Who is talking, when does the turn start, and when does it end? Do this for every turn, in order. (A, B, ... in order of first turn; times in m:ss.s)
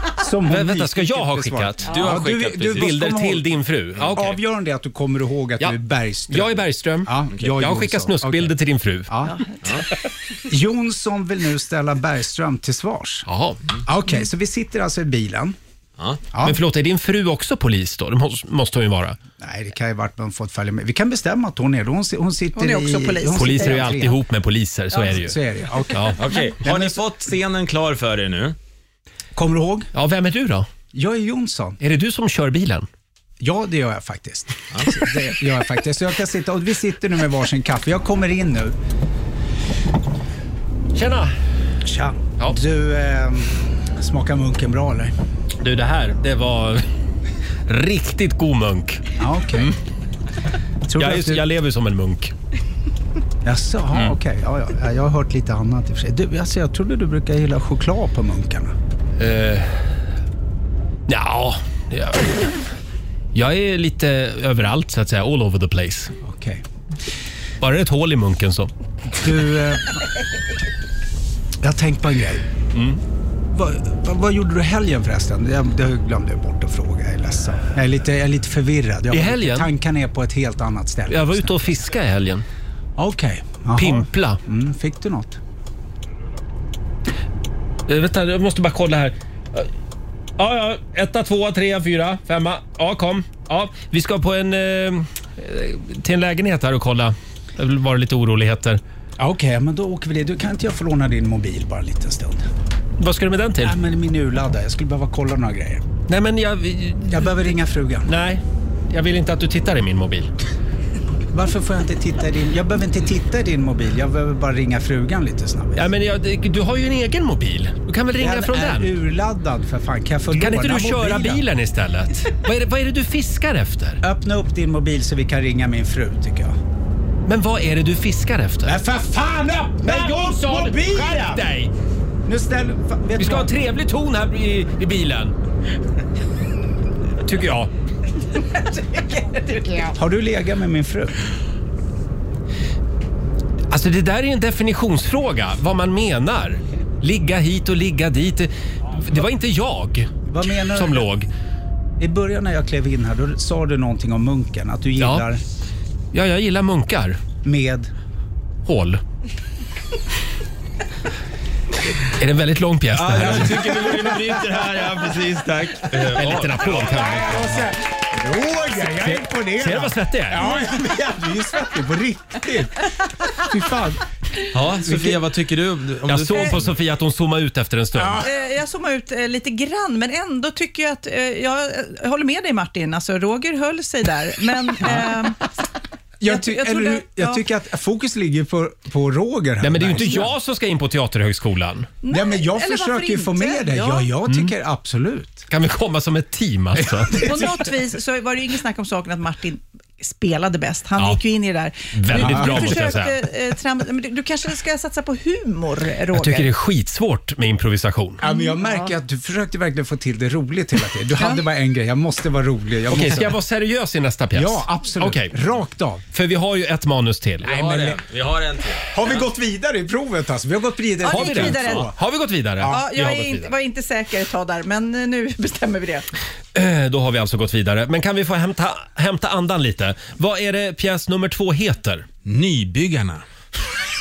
0:00.2-0:08.6 A
0:00.5-0:04.4 B
0:01.8-0:03.0 C
0:06.3-0:09.1 B
0:09.1-0:09.4 A
0:09.3-0:09.6 D
0:10.5-0:13.3 A
0:13.3-0:13.6 B
0:13.8-0:15.6 A
0:16.3-0:16.6 A
0:16.4-0:19.2 B
0:19.4-0:24.2 A
0:22.6-0:24.0 D
0:23.3-0:25.4 B
0:24.9-0:25.2 D
0:25.0-0:27.0 A
0:25.9-0:26.2 B
0:26.2-0:28.6 C
0:29.4-0:29.9 A
0:29.9-0:30.7 B
0:30.9-0:31.8 A
0:31.8-0:32.9 B
0:33.4-0:38.7 A
0:40.9-0:41.3 B
0:41.8-0:45.1 A
0:45.6-0:46.9 B
0:47.7-0:49.8 B
0:49.2-0:49.8 A
0:50.9-0:51.4 A
0:51.0-0:52.3 B
0:53.4-0:58.7 A
0:59.2-0:59.8 B
1:01.1-1:02.6 B
1:03.3-1:06.1 B
1:06.2-1:06.6 A
1:07.6-1:08.7 B
1:09.2-1:09.9 A
1:11.6-1:12.4 A
1:12.7-1:13.0 B
1:13.5-1:22.0 A
1:19.1-1:19.7 B
1:21.1-1:22.4 B
1:23.0-1:25.4 A
1:23.8-1:24.4 B
1:27.9-1:29.7 B
1:30.4-1:38.8 B
1:39.2-1:42.5 A
1:43.0-1:43.8 B
1:43.6-1:46.0 A
1:46.1-1:47.3 B
1:47.1-1:48.1 A
1:48.0-1:50.3 B
1:51.3-1:55.9 A
1:55.8-1:58.9 B
1:58.1-2:01.4 A
2:00.3-2:04.0 B
2:04.0-2:06.6 A
2:07.2-2:08.8 B
2:08.6-2:11.4 A
2:09.8-2:11.7 B
2:12.2-2:13.5 A
2:13.2-2:15.3 B
2:17.2-2:17.7 B
2:18.8-2:19.9 D
2:19.9-2:21.2 A
2:23.7-2:30.1 B
2:30.2-2:31.0 A
2:30.7-2:31.3 B
2:32.0-2:35.4 A
2:35.0-2:35.2 B
2:36.1-2:37.2 B
2:37.4-2:37.9 A
2:38.6-2:39.0 B
2:42.1-2:45.2 B
2:42.9-2:47.6 C
2:43.6-2:44.2 A
2:46.0-2:47.5 B
2:46.7-2:54.0 A
2:48.8-2:50.6 B
2:54.5-2:56.7 C
2:54.8-2:55.2 A
2:56.1-2:58.2 B
2:58.0-2:58.3 A
2:58.2-3:05.5 D
3:06.2-3:10.3 A
3:06.3-3:07.4 D
3:09.6-3:11.9 B
3:09.9-3:10.3 D
3:12.0-3:14.1 D
3:12.1-3:15.5 A
3:15.5-3:17.2 B
3:16.8-3:17.6 A
3:17.2-3:26.5 D
3:21.9-3:23.2 B
3:22.1-3:22.9 A
3:26.1-3:28.2 B
3:28.2-3:33.4 A
3:31.2-3:31.4 D
3:32.9-3:35.3 B
3:34.3-3:36.0 A
3:36.1-3:37.5 B
3:37.4-3:38.0 A
3:37.4-3:39.3 C
3:38.9-3:42.0 A
3:41.0-3:41.9 D
3:41.0-3:43.5 B
3:42.6-3:42.9 A
3:42.6-3:46.0 D
3:46.5-3:52.0 B
3:52.2-3:53.2 C